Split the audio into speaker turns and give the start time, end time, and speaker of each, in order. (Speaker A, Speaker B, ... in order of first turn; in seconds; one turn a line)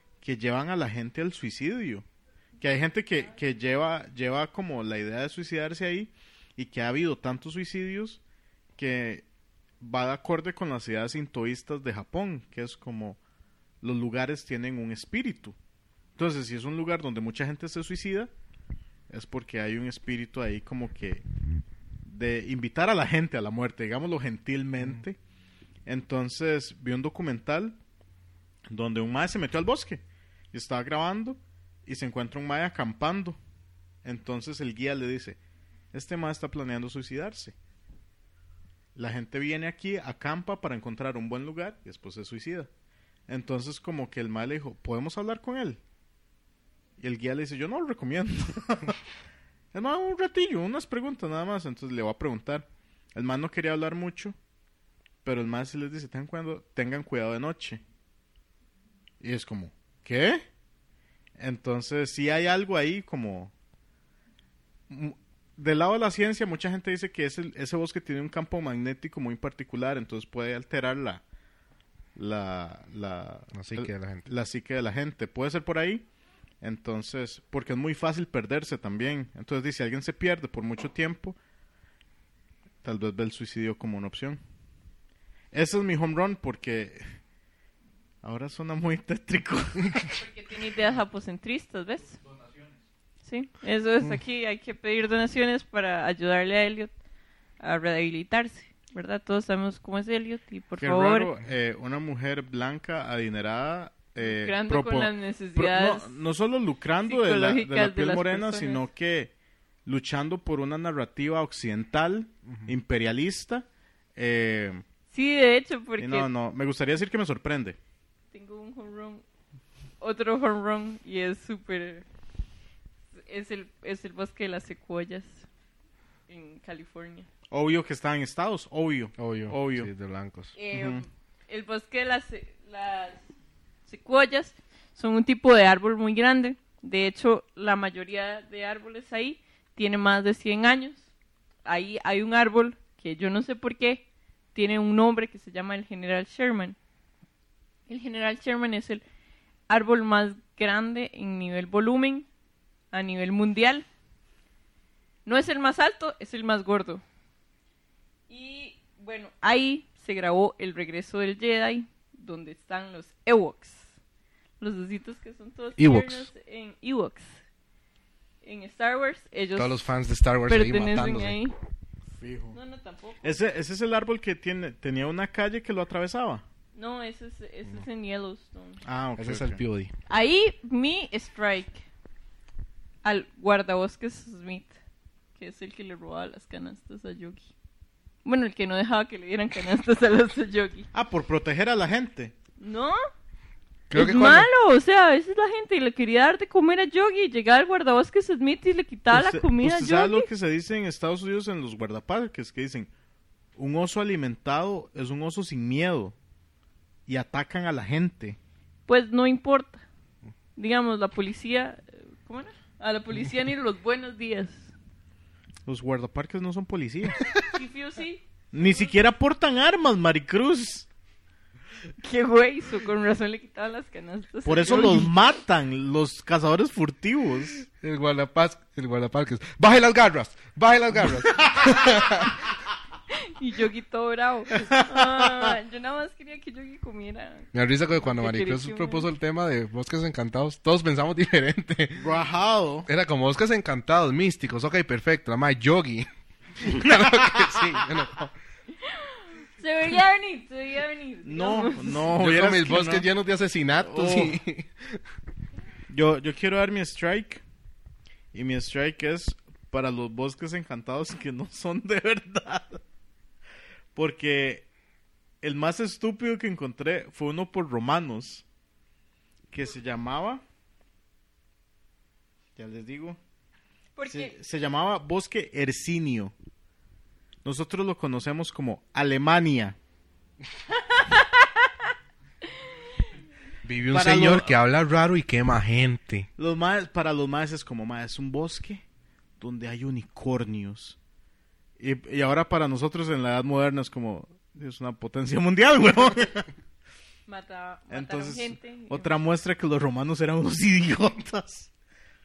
Speaker A: 0.2-2.0
Speaker A: 2.6-8.2
Speaker A: 8.8-9.2
Speaker A: 9.8-13.2
Speaker A: 13.8-15.6
Speaker A: 16.2-18.3
Speaker A: 19.1-21.2
Speaker A: 22.0-25.2
Speaker A: 25.9-27.8
Speaker A: 28.7-30.0
Speaker A: 30.5-33.4
Speaker A: 34.0-35.4
Speaker A: 35.9-37.5
Speaker A: 39.0-42.7
Speaker A: 43.3-45.8
Speaker A: 47.0-49.0
Speaker A: 49.7-54.4
Speaker A: 55.2-57.8
Speaker A: 59.2-60.4
Speaker A: 61.4-63.5
Speaker A: 64.9-71.2
Speaker A: 72.2-76.1
Speaker B: 73.5-74.3
Speaker A: 76.6-81.4
Speaker A: 82.8-84.4
Speaker A: 85.5-87.0
Speaker A: 88.2-90.2
Speaker C: 90.1-92.2
Speaker C: 93.2-96.9
Speaker C: 97.6-101.3
Speaker A: 100.8-109.3
Speaker C: 104.2-106.2
Speaker C: 107.0-108.9
Speaker A: 109.9-114.8
Speaker B: 112.5-112.7
Speaker C: 115.1-116.3
Speaker A: 116.0-117.8
Speaker C: 118.3-119.2
Speaker C: 120.0-122.1
Speaker C: 123.3-125.5
Speaker C: 126.3-127.3
Speaker A: 127.5-129.9
Speaker B: 129.2-130.6
Speaker C: 130.6-133.2
Speaker A: 130.7-131.0
Speaker C: 133.9-141.1
Speaker C: 141.7-146.8
Speaker C: 147.9-149.0
Speaker C: 149.7-152.3
Speaker C: 152.9-153.9
Speaker C: 155.3-157.0
Speaker C: 158.3-163.9
Speaker C: 164.6-167.3
Speaker B: 165.8-166.3
Speaker C: 168.4-169.8
Speaker B: 169.6-171.4
Speaker C: 170.5-171.5
Speaker A: 172.2-172.6
Speaker C: 172.5-173.4
Speaker A: 173.2-176.4
Speaker C: 176.8-178.8
Speaker A: 178.8-179.6
Speaker B: 179.2-179.9
Speaker C: 180.1-181.8
Speaker C: 183.0-184.8
Speaker C: 185.4-187.5
Speaker C: 188.2-190.9
Speaker A: 190.9-192.3
Speaker C: 192.6-193.0
Speaker B: 193.9-194.5
Speaker C: 193.9-200.3
Speaker A: 199.1-202.9
Speaker A: 203.6-206.2
Speaker A: 207.1-208.4
Speaker C: 208.9-209.8
Speaker C: 210.6-214.7
Speaker A: 215.7-217.2
Speaker C: 217.4-218.9
Speaker A: 218.5-220.9
Speaker C: 222.0-225.1
Speaker A: 224.5-227.7
Speaker B: 227.8-232.5
Speaker A: 231.3-231.7
Speaker C: 233.1-239.1
Speaker A: 234.6-235.6
Speaker B: 237.5-242.2
Speaker A: 242.0-242.9
Speaker B: 242.9-246.1
Speaker B: 246.6-248.3
Speaker A: 246.7-247.6
Speaker C: 248.8-252.1
Speaker A: 251.2-253.1
Speaker B: 252.1-255.0
Speaker A: 253.8-254.4
Speaker A: 255.9-257.4
Speaker A: 258.3-262.8
Speaker A: 264.0-264.6
Speaker A: 265.4-268.4
Speaker A: 269.5-270.4
Speaker A: 272.6-273.2
Speaker C: 274.0-274.3
Speaker A: 274.1-276.3
Speaker A: 277.4-279.8
Speaker C: 280.8-281.7
Speaker B: 283.6-286.3
Speaker A: 283.9-284.6
Speaker A: 286.4-288.8
Speaker A: 289.4-291.0
Speaker A: 291.8-296.5
Speaker C: 297.3-299.1
Speaker A: 297.9-301.7